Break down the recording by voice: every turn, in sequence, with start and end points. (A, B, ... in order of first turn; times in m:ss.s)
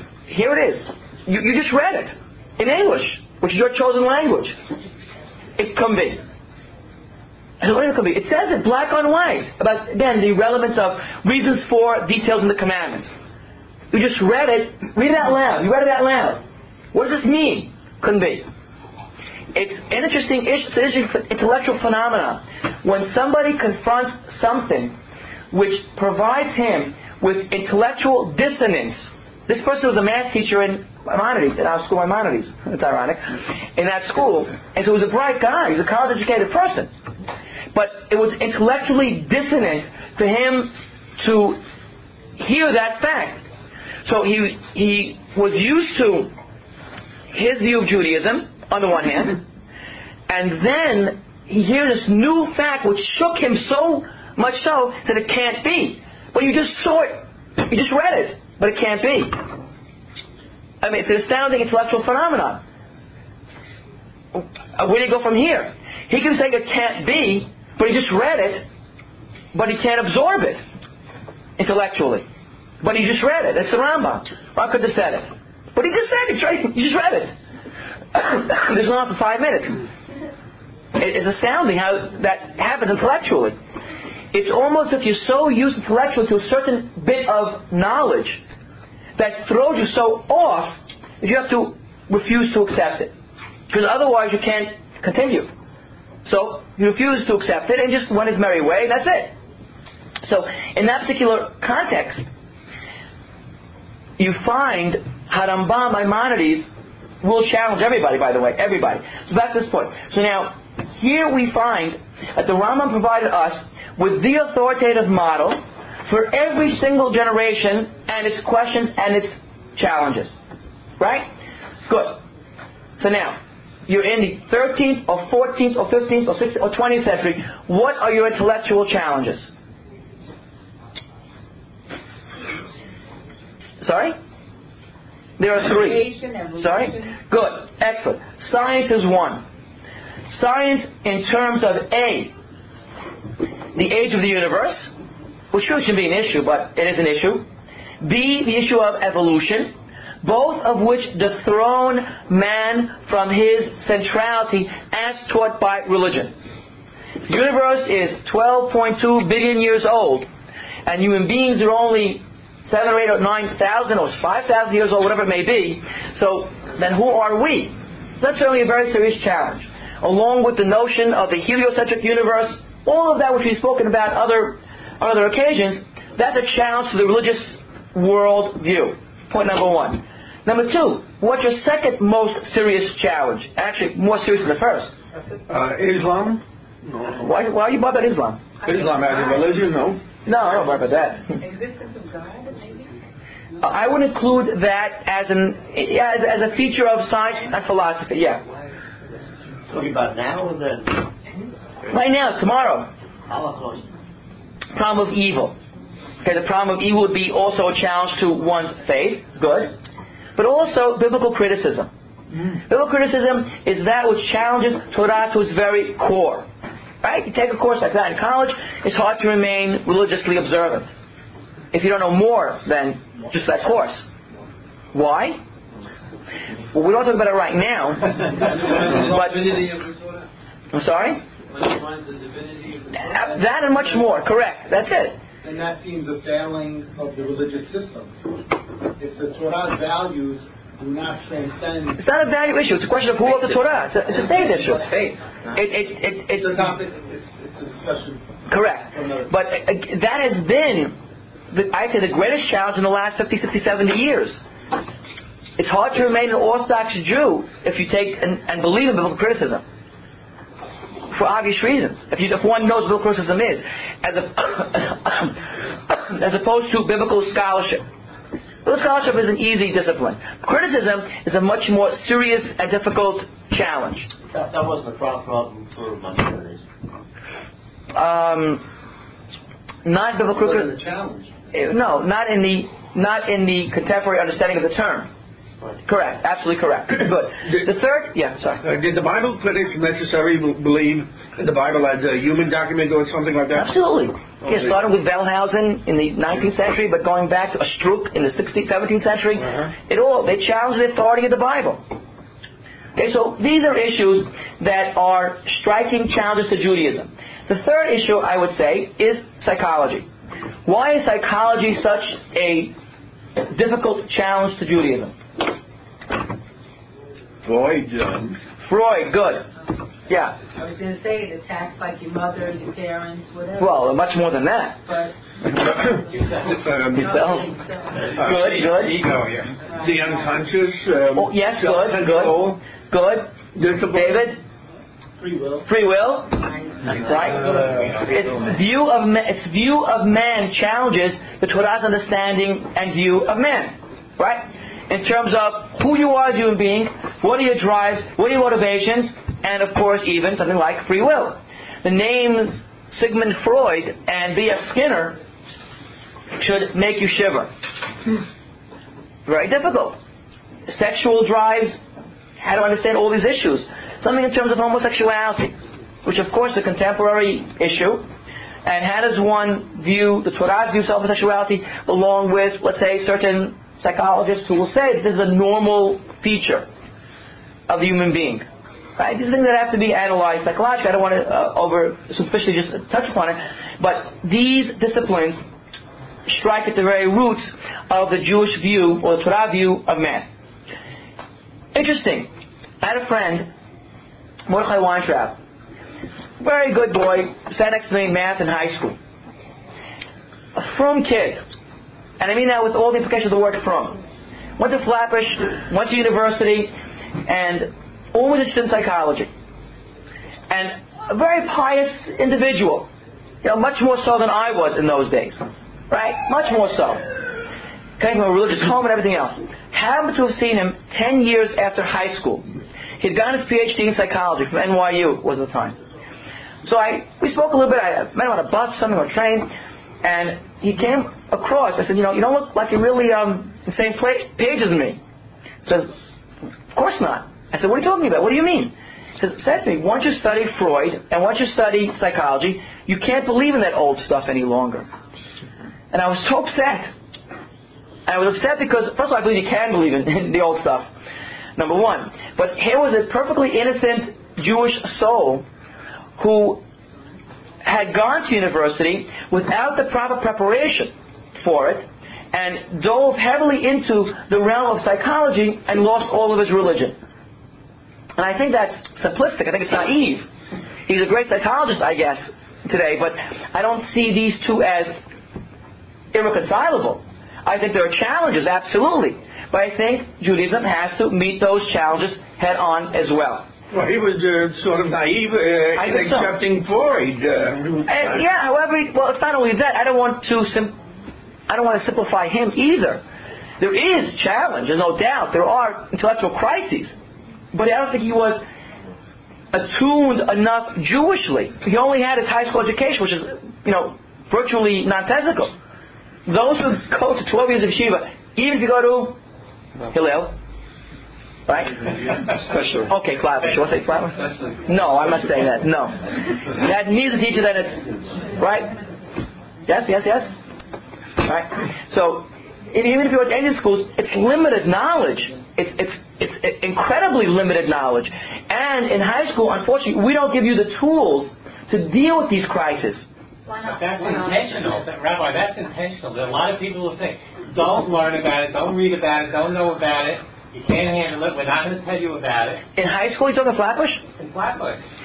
0:00.3-0:04.6 A
0:05.6-0:06.2 A
0:07.6-0:13.1 A
0:13.9-0:16.4 A
0:16.9-0:18.4 A
0:19.5-0:25.0 A
0:25.5-0:36.9 A
0:37.7-0:41.6 A
0:42.4-0:43.4 A
0:44.0-0:46.3 A
0:47.3-0:49.4 A
0:50.3-0:59.4 A
1:00.8-1:02.6 A
1:04.3-1:08.6 A
1:09.5-1:10.6 A
1:11.6-1:12.2 A
1:12.8-1:17.3 A
1:18.1-1:19.9 A
1:21.0-1:23.6 A
1:24.3-1:28.4 A
1:29.2-1:33.1 A
1:33.7-1:35.5 A
1:36.2-1:39.3 A
1:40.2-1:42.2 A
1:44.2-1:46.7 A
1:47.2-2:00.4 A
2:01.0-2:01.3 A
2:01.9-2:02.2 A
2:03.0-2:09.5 A
2:13.8-2:14.2 A
2:15.4-2:19.4 A
2:15.6-2:17.2 B
2:20.3-2:22.3 A
2:23.7-2:24.9 A
2:25.5-2:27.4 A
2:28.0-2:36.3 A
2:37.3-2:40.3 A
2:40.9-3:04.9 A
3:05.5-3:07.3 C
3:07.2-3:08.4 A
3:08.6-3:09.5 B
3:08.6-3:10.0 C
3:10.2-3:11.4 A
3:11.2-3:12.9 B
3:13.6-3:18.4 A
3:19.7-3:21.1 D
3:21.9-3:22.9 A
3:23.3-3:23.9 D
3:24.7-3:25.6 A
3:26.2-3:29.7 A
3:30.4-3:31.9 A
3:32.7-3:36.5 A
3:37.0-3:40.9 A
3:41.7-3:44.1 A
3:44.9-3:45.4 A
3:46.7-3:49.4 A
3:48.4-3:50.3 E
3:50.7-3:51.2 A
3:51.5-3:54.1 E
3:53.1-3:55.2 A
3:55.4-3:58.4 F
3:59.0-4:02.0 F
4:02.0-4:06.5 A
4:03.5-4:05.2 F
4:06.4-4:08.3 F
4:08.5-4:11.0 A
4:08.9-4:09.3 F
4:11.5-4:14.4 A
4:15.6-4:19.6 A
4:21.1-4:27.8 A
4:28.6-4:34.1 A
4:34.3-4:36.6 D
4:37.9-4:38.6 A
4:39.8-4:40.7 A
4:40.4-4:41.3 D
4:41.5-4:45.1 A
4:45.9-4:48.6 A
4:48.6-4:53.7 C
4:53.5-5:01.8 A
4:54.4-4:54.7 C
5:03.0-5:10.1 A
5:10.6-5:12.7 A
5:13.4-5:15.1 A
5:17.4-5:18.4 C
5:18.6-5:19.5 A
5:20.1-5:20.4 A
5:20.4-5:23.9 B
5:23.6-5:24.8 A
5:24.9-5:25.1 B
5:26.6-5:27.1 C
5:26.9-5:28.0 B
5:26.9-5:27.5 A
5:28.0-5:29.6 G
5:28.2-5:29.0 A
5:29.6-5:30.3 B
5:29.7-5:32.6 C
5:31.1-5:33.4 A
5:33.6-5:34.3 C
5:33.9-5:34.4 A
5:35.2-5:35.7 D
5:35.6-5:55.2 A
5:36.5-5:36.8 B
5:37.1-5:38.4 G
5:56.4-5:57.5 A
5:59.2-6:00.0 A
6:00.7-6:01.8 A
6:02.4-6:08.1 A
6:08.6-6:16.7 A
6:17.7-6:18.4 A
6:19.0-6:25.4 A
6:26.2-6:30.3 A
6:31.7-6:32.3 A
6:32.8-6:33.5 A
6:34.5-6:35.4 A
6:36.4-6:39.0 A
6:40.6-6:41.4 A
6:42.2-6:44.0 A
6:44.6-6:46.7 A
6:47.2-6:49.3 A
6:50.5-6:52.9 A
6:53.4-6:57.1 A
6:58.0-7:02.4 A
7:03.0-7:05.7 A
7:06.6-7:09.5 A
7:10.0-7:15.0 A
7:15.6-7:15.9 A
7:16.7-7:24.9 A
7:25.9-7:26.9 A
7:28.1-7:30.9 A
7:31.6-7:35.4 A
7:36.2-7:36.6 A
7:37.6-7:47.0 A
7:48.2-7:50.3 A
7:50.9-7:55.0 A
7:56.1-8:03.5 A
8:03.7-8:08.2 C
8:05.8-8:06.4 A
8:07.9-8:10.8 A
8:11.5-8:13.0 A
8:13.6-8:16.9 A
8:17.5-8:18.4 A
8:19.5-8:25.5 A
8:26.2-8:29.2 A
8:29.9-8:30.4 A
8:31.5-8:38.7 A
8:34.3-8:34.6 E
8:39.7-8:40.3 A
8:41.2-8:53.1 A
8:53.5-8:54.6 B
8:53.6-9:02.6 G
9:02.8-9:04.0 A
9:04.2-9:04.8 G